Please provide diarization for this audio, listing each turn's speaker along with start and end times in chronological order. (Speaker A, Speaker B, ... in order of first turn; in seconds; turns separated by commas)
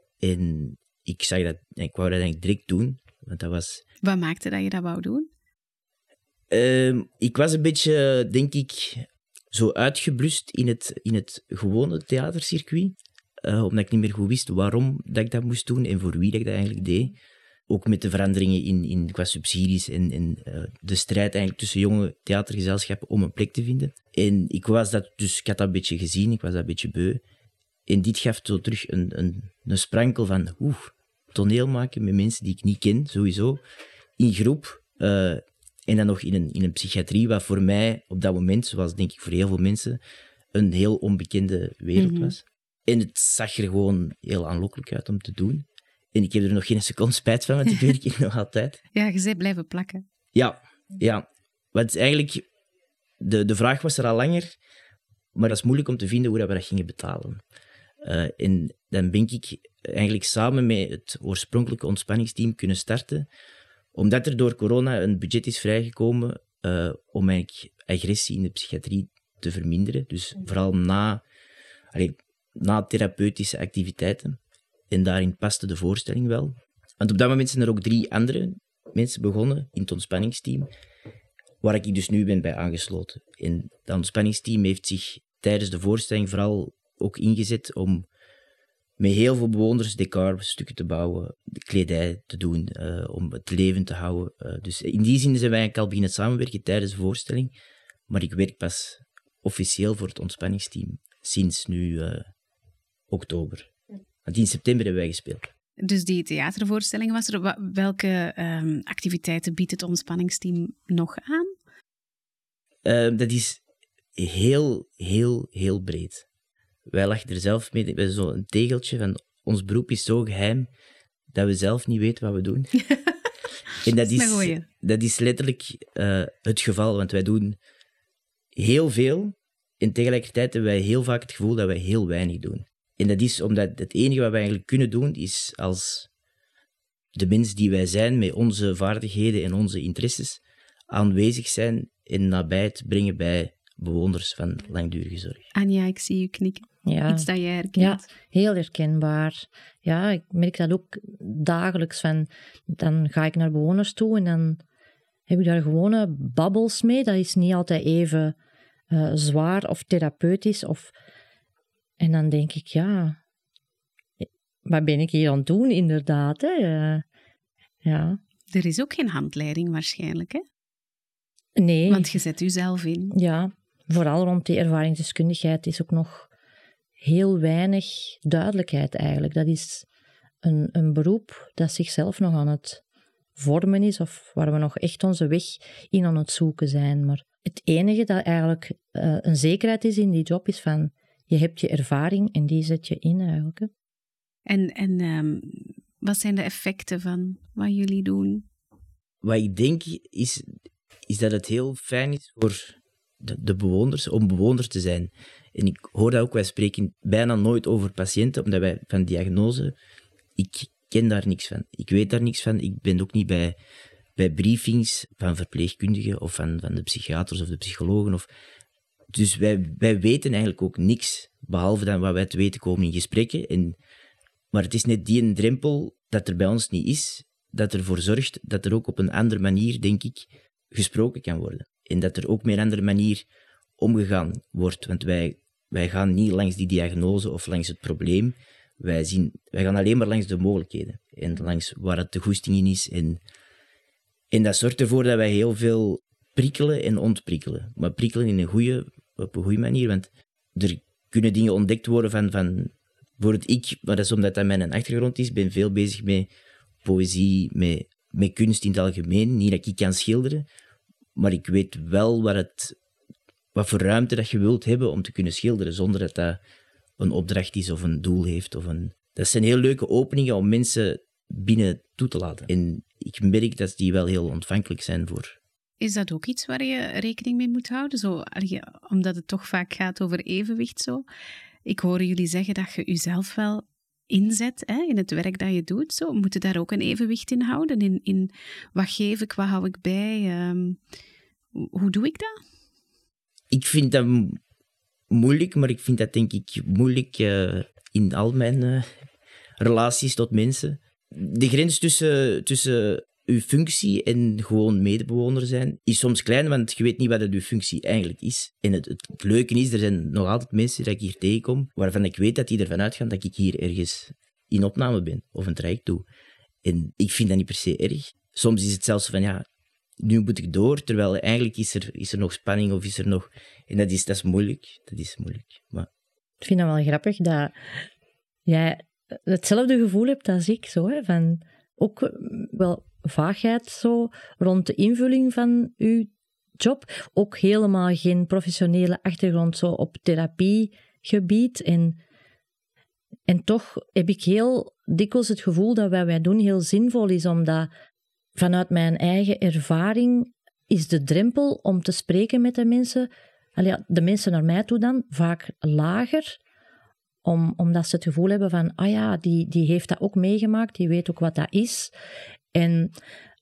Speaker A: 0.2-3.8, Speaker B: 4.0-5.3, Speaker A: 6.5-17.1, Speaker A: 17.7-27.2, Speaker A: 27.9-33.6, Speaker A: 34.2-40.0, Speaker A: 40.5-48.8, Speaker B: 41.9-42.3, Speaker B: 48.9-50.0, Speaker A: 50.3-52.4, Speaker A: 53.2-54.5, Speaker A: 55.3-57.4, Speaker A: 58.0-63.3, Speaker A: 63.9-71.2, Speaker A: 71.9-74.4, Speaker A: 74.9-80.7, Speaker A: 81.6-88.0, Speaker A: 89.0-97.5, Speaker A: 98.1-102.3, Speaker A: 103.1-103.7, Speaker A: 104.2-105.5, Speaker B: 105.8-111.5, Speaker A: 112.8-113.6, Speaker A: 114.2-116.2, Speaker A: 116.9-120.7, Speaker A: 121.3-122.8, Speaker A: 123.8-127.6, Speaker B: 124.0-124.6, Speaker A: 128.5-136.1, Speaker A: 137.1-145.4, Speaker B: 145.5-148.0, Speaker C: 146.8-154.6, Speaker C: 155.3-158.3, Speaker C: 158.9-160.9, Speaker C: 162.0-163.2, Speaker C: 164.2-167.0, Speaker C: 167.8-168.2, Speaker B: 168.5-170.4, Speaker C: 171.6-172.1, Speaker B: 171.9-173.1, Speaker C: 173.1-176.3, Speaker C: 177.0-179.8, Speaker C: 180.4-182.8, Speaker C: 183.4-193.7, Speaker B: 194.5-198.4, Speaker A: 199.2-200.4, Speaker A: 201.1-209.7, Speaker A: 210.3-213.5, Speaker A: 214.2-218.3, Speaker A: 219.1-223.8, Speaker A: 224.5-233.2, Speaker A: 233.8-243.2, Speaker A: 244.3-256.3, Speaker A: 256.8-260.4, Speaker A: 261.1-262.7, Speaker A: 263.5-266.4, Speaker A: 267.0-275.4, Speaker B: 275.8-281.0, Speaker B: 281.6-290.8, Speaker B: 291.5-292.3, Speaker A: 293.5-294.4, Speaker A: 295.1-298.9, Speaker A: 299.6-316.0, Speaker A: 316.6-319.4, Speaker A: 320.0-325.9, Speaker C: 326.4-327.5, Speaker C: 328.4-342.0, Speaker C: 343.3-347.7, Speaker C: 348.4-356.4, Speaker C: 357.2-361.9, Speaker C: 362.5-362.9